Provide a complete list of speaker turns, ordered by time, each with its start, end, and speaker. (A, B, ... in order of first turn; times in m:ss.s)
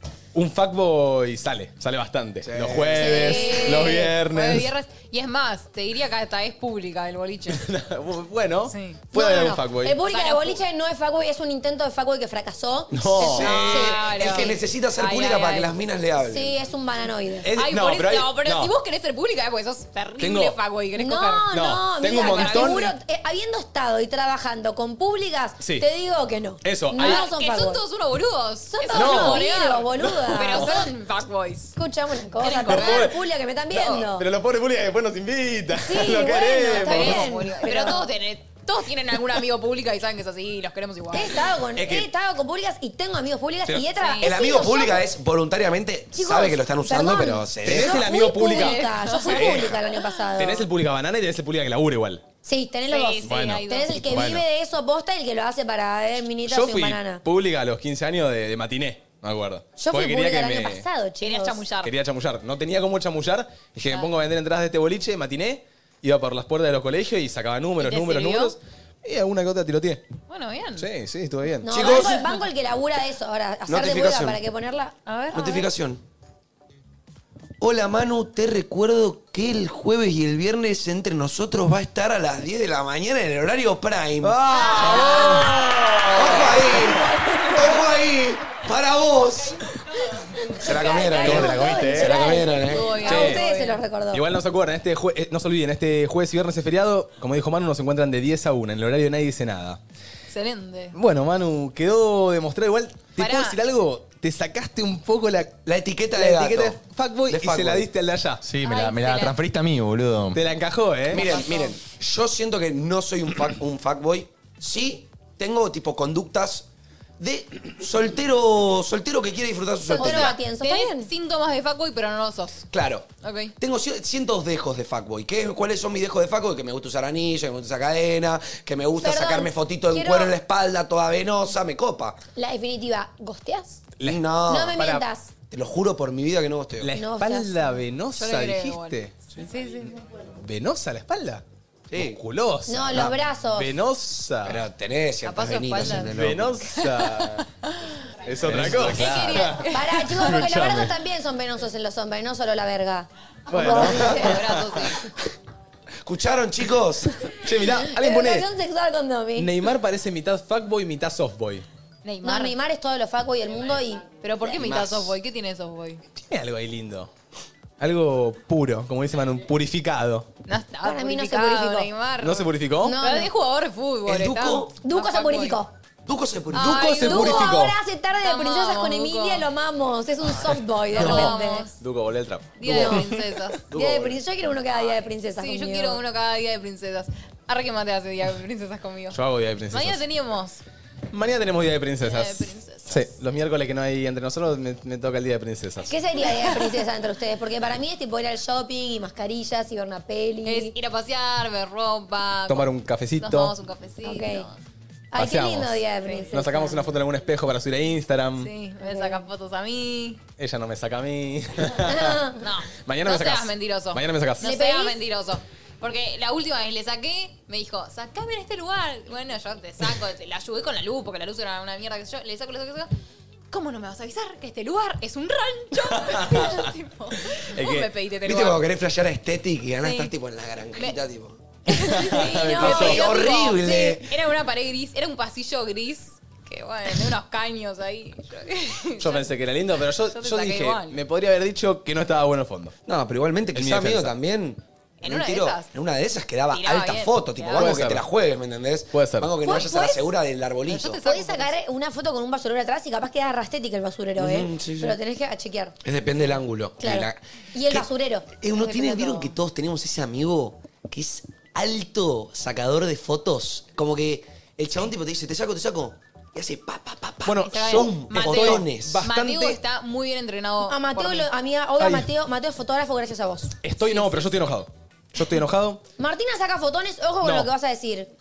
0:00.3-0:04.7 A
0:02.4-0:03.3 B
0:03.0-0:04.1 C
0:03.1-0:07.6 D
0:07.5-0:10.0 A
0:08.7-0:09.0 D
0:09.1-0:14.6 C
0:10.0-0:10.6 D
0:12.9-0:13.7 A
0:13.2-0:16.6 B
0:13.4-0:15.8 D
0:16.2-0:17.5 C
0:17.4-0:18.7 A
0:17.5-0:21.5 D
0:20.2-0:20.6 A
0:21.0-0:27.8 C
0:21.5-0:23.0 A
0:22.2-0:22.8 D
0:25.6-0:25.9 A
0:26.6-0:27.2 A
0:27.0-0:31.8 D
0:28.7-0:30.9 C
0:28.9-0:30.7 A
0:31.8-0:34.3 C
0:32.4-0:33.1 D
0:32.7-0:37.3 A
0:35.8-0:38.1 C
0:36.7-0:41.4 D
0:41.1-0:45.1 C
0:41.8-0:42.1 A
0:44.0-0:44.4 D
0:44.2-0:48.1 B
0:46.1-0:50.7 C
0:47.6-0:49.8 A
0:48.4-0:49.6 D
0:50.4-0:52.2 A
0:52.4-0:57.2 C
0:52.9-0:54.2 D
0:53.2-0:54.5 A
0:56.5-1:00.8 A
0:59.8-1:01.6 C
1:01.2-1:01.9 D
1:01.8-1:10.0 A
1:07.8-1:08.6 D
1:10.3-1:10.9 D
1:10.8-1:11.7 A
1:11.6-1:15.5 C
1:11.7-1:12.3 B
1:13.7-1:14.4 B
1:15.1-1:15.7 D
1:15.3-1:16.0 B
1:17.6-1:29.7 B
1:24.2-1:26.9 A
1:24.6-1:25.9 D
1:30.4-1:33.1 B
1:30.6-1:34.2 C
1:31.0-1:31.4 D
1:31.2-1:32.2 E
1:32.5-1:33.8 D
1:33.0-1:33.4 A
1:34.1-1:39.8 A
1:40.3-1:41.0 D
1:40.9-1:45.6 A
1:43.2-1:43.6 D
1:45.7-1:46.8 B
1:46.1-1:48.4 A
1:47.3-1:47.9 B
1:48.4-1:50.4 E
1:48.6-1:49.4 D
1:50.3-1:51.4 A
1:51.1-1:56.7 B
1:51.1-1:51.7 D
1:57.2-2:00.4 B
1:59.8-2:01.1 C
2:00.0-2:02.7 D
2:02.7-2:12.2 B
2:03.2-2:03.5 D
2:09.0-2:10.4 C
2:12.4-2:13.8 C
2:14.0-2:15.0 A
2:14.0-2:14.8 B
2:14.5-2:15.3 C
2:15.5-2:16.9 B
2:16.8-2:19.1 A
2:17.0-2:17.7 C
2:18.2-2:20.0 D
2:20.4-2:21.4 A
2:21.9-2:22.2 B
2:22.0-2:24.6 A
2:22.7-2:23.7 C
2:24.4-2:26.7 B
2:25.2-2:26.1 D
2:26.1-2:27.4 A
2:26.8-2:28.0 D
2:28.2-2:31.0 A
2:28.7-2:30.2 D
2:29.6-2:34.4 C
2:33.5-2:34.8 A
2:33.6-2:35.0 D
2:36.0-2:37.3 B
2:37.4-2:38.5 A
2:37.8-2:39.5 C
2:39.4-2:41.7 A
2:42.0-2:42.6 D
2:42.2-2:44.1 C
2:44.2-2:46.0 D
2:44.7-2:45.0 A
2:46.2-2:47.1 A
2:47.8-2:50.3 A
2:50.5-2:55.6 D
2:50.8-2:51.9 C
2:52.2-2:53.0 A
2:52.8-2:53.3 C
2:54.1-2:54.8 B
2:54.8-2:55.7 C
2:56.1-2:57.3 B
2:56.5-2:57.6 D
2:56.8-3:01.7 C
2:57.0-2:57.8 A
2:58.2-2:59.5 D
3:00.9-3:01.7 D
3:01.0-3:03.2 A
3:02.6-3:03.6 D
3:02.7-3:03.1 C
3:03.7-3:04.2 B
3:03.7-3:06.0 C
3:05.4-3:09.2 D
3:09.1-3:10.0 A
3:09.7-3:10.6 D
3:11.1-3:15.9 A
3:12.0-3:13.1 D
3:15.9-3:20.8 C
3:20.4-3:24.6 D
3:22.5-3:23.5 A
3:24.0-3:24.5 C
3:25.1-3:26.9 C
3:25.2-3:28.5 A
3:28.4-3:30.2 D
3:28.8-3:29.2 C
3:30.4-3:32.2 A
3:31.8-3:32.4 C
3:32.4-3:42.9 D
3:32.8-3:34.5 A
3:34.4-3:35.0 C
3:43.5-3:48.6 D
3:45.9-3:46.7 A
3:47.3-3:47.9 A
3:48.2-3:51.4 B
3:49.8-3:50.1 D
3:51.7-3:59.3 D
3:51.8-3:53.0 A
3:52.0-3:54.0 C
3:52.6-3:54.1 B
3:59.0-4:02.8 A
4:00.1-4:01.0 D
4:02.9-4:11.0 B
4:03.5-4:04.2 A
4:05.0-4:05.7 D
4:06.5-4:07.7 D
4:07.6-4:08.0 A
4:08.9-4:09.4 A
4:09.4-4:10.0 C
4:09.5-4:10.0 D
4:10.7-4:11.6 D
4:11.0-4:15.7 C
4:14.2-4:15.0 B
4:15.8-4:29.0 B
4:16.8-4:18.9 C
4:18.6-4:19.3 D
4:27.2-4:29.6 A
4:27.5-4:31.3 D
4:30.7-4:33.6 C
4:31.8-4:32.1 A
4:33.6-4:35.8 A
4:33.8-4:34.4 D
4:36.0-4:38.1 C
4:37.2-4:37.5 A